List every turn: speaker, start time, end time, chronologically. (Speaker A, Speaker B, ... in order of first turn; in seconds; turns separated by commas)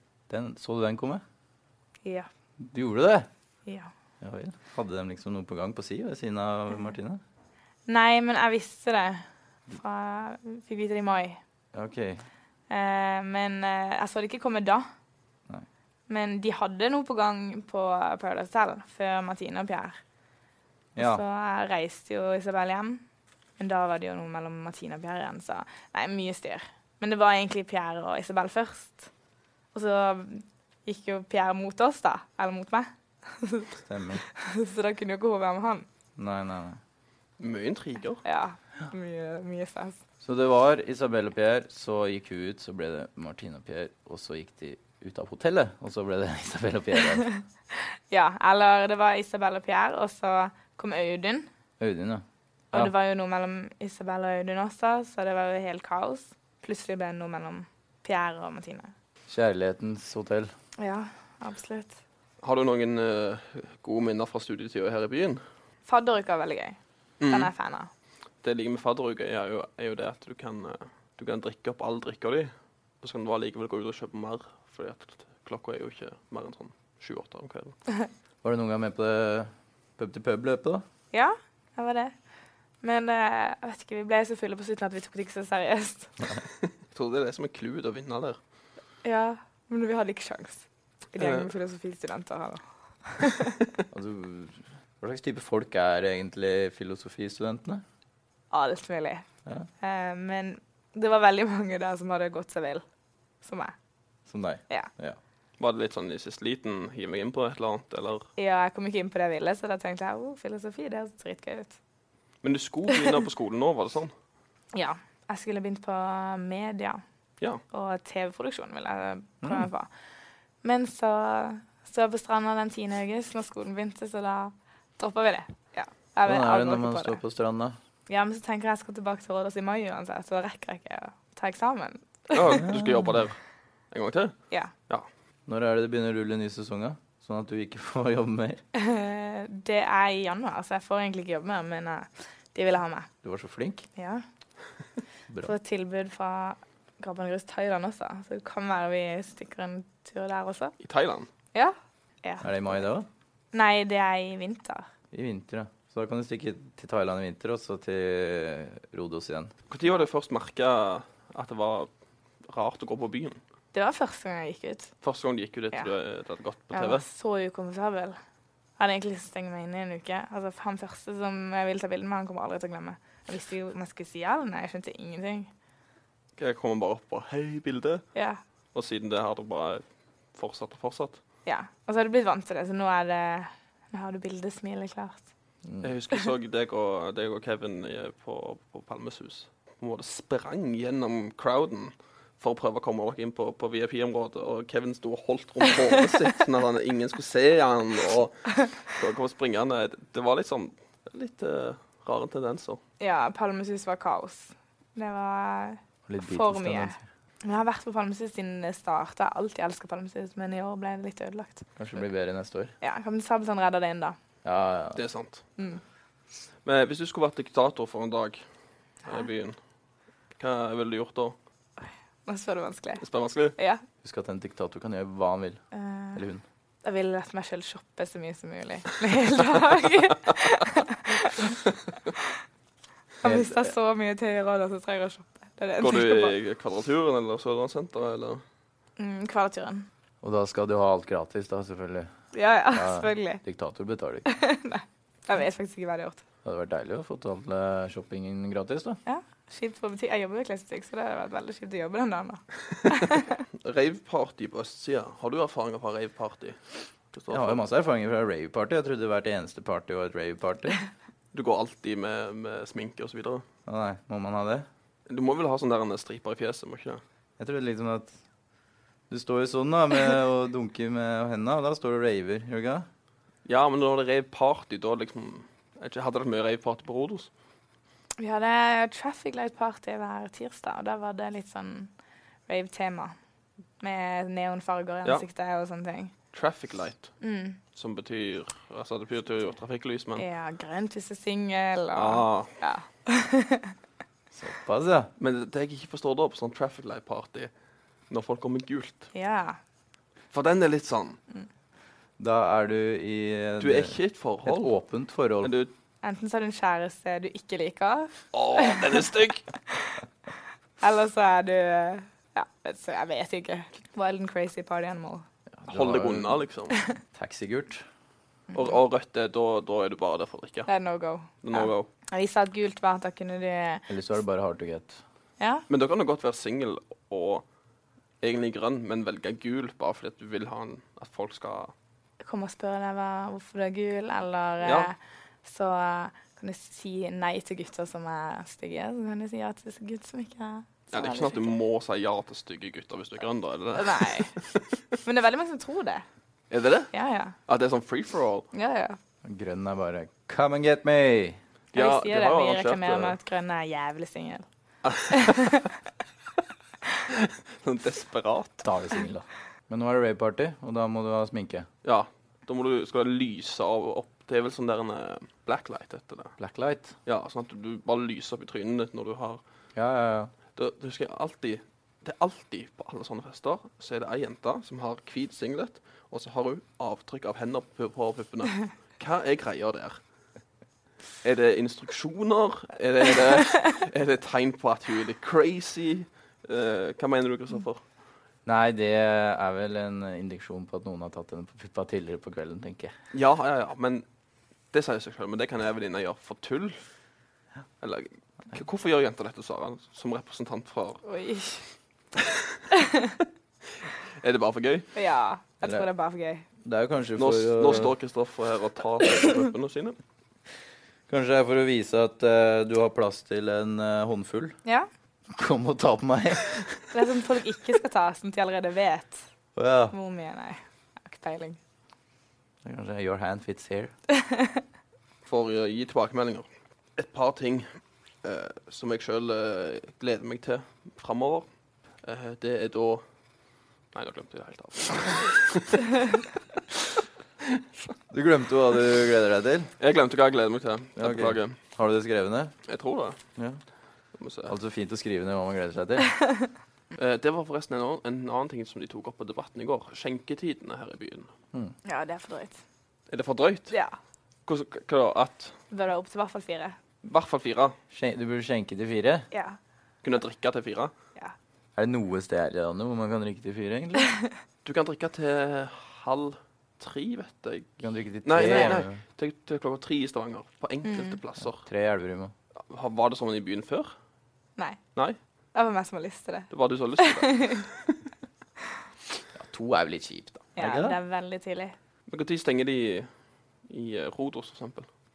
Speaker A: 0.3-1.2, Speaker A: 2.6-3.3, Speaker A: 4.2-7.2, Speaker B: 7.9-11.4, Speaker A: 11.7-12.2, Speaker B: 12.7-14.9, Speaker B: 16.1-20.0, Speaker A: 20.9-21.2, Speaker B: 21.0-23.0, Speaker B: 23.6-29.1, Speaker B: 29.7-35.9, Speaker A: 33.8-34.2, Speaker A: 36.2-36.8, Speaker C: 37.4-38.2, Speaker B: 38.2-40.0, Speaker A: 40.2-47.3, Speaker B: 47.8-51.5, Speaker A: 51.8-52.9, Speaker B: 52.7-58.9, Speaker A: 59.3-60.5, Speaker B: 60.8-62.0, Speaker C: 62.4-65.4, Speaker B: 65.9-66.8, Speaker C: 67.2-67.5, Speaker B: 67.3-67.9, Speaker C: 68.4-77.8, Speaker A: 78.4-80.8, Speaker B: 81.1-82.1, Speaker B: 82.8-86.1, Speaker C: 86.9-88.4, Speaker B: 89.0-93.5, Speaker C: 91.2-91.5, Speaker A: 93.9-97.8, Speaker B: 98.5-99.2, Speaker B: 99.8-102.8, Speaker B: 103.4-103.7, Speaker A: 104.3-105.2, Speaker C: 105.6-108.3, Speaker B: 108.4-111.8, Speaker C: 112.4-114.1, Speaker B: 114.7-117.0, Speaker B: 117.7-119.9, Speaker A: 119.4-119.7, Speaker B: 120.6-127.2, Speaker A: 126.2-127.8, Speaker B: 128.1-132.7, Speaker C: 132.3-133.4, Speaker A: 132.6-133.2, Speaker C: 133.9-134.3, Speaker A: 135.5-138.6, Speaker B: 138.7-143.1, Speaker A: 143.2-143.9, Speaker B: 143.9-144.2, Speaker B: 145.4-150.7, Speaker C: 150.8-151.3, Speaker B: 151.5-152.5, Speaker A: 152.4-153.1, Speaker B: 153.5-154.9, Speaker A: 155.1-159.5, Speaker C: 159.7-161.9, Speaker C: 162.5-163.4, Speaker B: 163.7-164.9, Speaker C: 165.0-167.0, Speaker B: 166.7-168.2, Speaker B: 168.8-175.5, Speaker C: 176.4-178.1, Speaker B: 178.1-178.4, Speaker C: 178.7-181.2, Speaker B: 181.4-185.2, Speaker A: 185.7-185.9, Speaker C: 185.8-202.8, Speaker B: 203.0-211.7, Speaker A: 206.1-207.0, Speaker A: 211.8-212.7, Speaker B: 212.8-214.2, Speaker A: 214.4-215.0, Speaker C: 214.9-215.4, Speaker C: 216.6-218.4, Speaker C: 219.0-219.6, Speaker C: 220.4-221.3, Speaker B: 221.8-223.0, Speaker C: 223.0-223.5, Speaker B: 223.6-223.8, Speaker A: 224.0-225.6, Speaker B: 225.7-226.2, Speaker A: 226.1-226.4, Speaker B: 226.8-231.6, Speaker B: 233.2-236.3, Speaker A: 233.2-233.7, Speaker C: 235.8-238.4, Speaker B: 239.0-239.9, Speaker A: 240.2-242.1, Speaker B: 242.3-243.4, Speaker A: 242.7-244.2, Speaker B: 244.2-246.2, Speaker A: 246.4-249.0, Speaker B: 249.1-253.4, Speaker C: 253.6-256.6, Speaker C: 257.1-257.6, Speaker A: 257.3-260.8, Speaker C: 261.3-263.4, Speaker A: 263.6-264.7, Speaker C: 265.1-267.0, Speaker A: 267.4-268.1, Speaker A: 269.1-272.9, Speaker C: 273.4-277.3, Speaker B: 278.2-281.9, Speaker B: 282.5-283.1, Speaker B: 283.8-286.1, Speaker C: 286.3-287.1, Speaker B: 287.2-287.6, Speaker C: 287.7-290.2, Speaker B: 290.2-293.7, Speaker C: 291.9-292.5, Speaker A: 294.3-295.1, Speaker C: 295.2-297.5, Speaker C: 298.1-299.1, Speaker B: 299.1-299.6, Speaker C: 300.3-301.2, Speaker A: 302.2-305.5, Speaker C: 303.6-304.7, Speaker C: 305.4-305.7, Speaker B: 306.0-309.0, Speaker C: 308.3-309.4, Speaker B: 310.8-315.2, Speaker A: 315.5-316.4, Speaker C: 315.7-316.7, Speaker A: 317.1-317.9, Speaker C: 318.5-320.7, Speaker B: 320.7-323.9, Speaker C: 321.4-321.9, Speaker A: 323.9-325.0, Speaker B: 325.4-325.6, Speaker C: 325.7-327.4, Speaker C: 328.2-331.7, Speaker B: 332.2-341.5, Speaker C: 334.6-334.9, Speaker C: 340.9-344.6, Speaker B: 343.8-344.4, Speaker B: 345.0-346.0, Speaker C: 346.5-346.9, Speaker B: 346.9-347.4, Speaker C: 347.5-348.5, Speaker B: 348.5-349.0, Speaker A: 349.2-351.4, Speaker C: 351.7-353.2, Speaker B: 351.7-354.4, Speaker C: 354.8-355.4, Speaker B: 355.1-355.7, Speaker C: 357.1-358.6, Speaker A: 358.6-361.7, Speaker C: 361.8-366.4, Speaker A: 366.4-366.9, Speaker C: 367.0-369.4, Speaker A: 369.7-370.3, Speaker C: 370.5-380.0, Speaker C: 381.2-387.8, Speaker A: 388.4-392.9, Speaker C: 393.1-394.0, Speaker C: 394.7-396.8, Speaker C: 397.8-401.0, Speaker B: 401.0-401.6, Speaker B: 402.7-403.1, Speaker C: 404.2-404.9, Speaker B: 404.9-406.4, Speaker A: 406.6-407.9, Speaker C: 407.2-410.0, Speaker A: 411.1-414.6, Speaker A: 415.3-416.8, Speaker B: 416.9-419.2, Speaker A: 419.5-419.9, Speaker B: 419.9-421.6, Speaker A: 422.6-423.9, Speaker B: 424.1-424.6, Speaker C: 425.2-427.7, Speaker C: 428.2-431.5, Speaker C: 432.0-433.0, Speaker C: 433.9-436.2, Speaker A: 438.1-439.7, Speaker C: 439.8-441.6, Speaker A: 441.0-442.5, Speaker C: 442.7-443.2, Speaker C: 444.2-444.5, Speaker A: 444.5-446.1, Speaker B: 446.2-446.5, Speaker C: 446.9-451.3, Speaker B: 451.8-452.6, Speaker C: 453.1-453.7, Speaker B: 453.7-453.9, Speaker C: 454.4-455.6, Speaker B: 455.7-456.8, Speaker C: 457.0-457.8, Speaker A: 457.9-459.3, Speaker B: 459.3-459.6, Speaker C: 460.0-460.9, Speaker A: 461.8-464.1, Speaker C: 464.6-467.7, Speaker A: 467.8-469.0, Speaker C: 468.2-471.6, Speaker B: 468.4-468.8, Speaker B: 470.8-471.2, Speaker A: 471.4-472.3, Speaker C: 472.7-473.9, Speaker B: 475.5-477.6, Speaker C: 476.5-477.9, Speaker A: 479.3-481.0, Speaker B: 480.6-481.7, Speaker C: 482.1-483.1, Speaker C: 483.7-484.9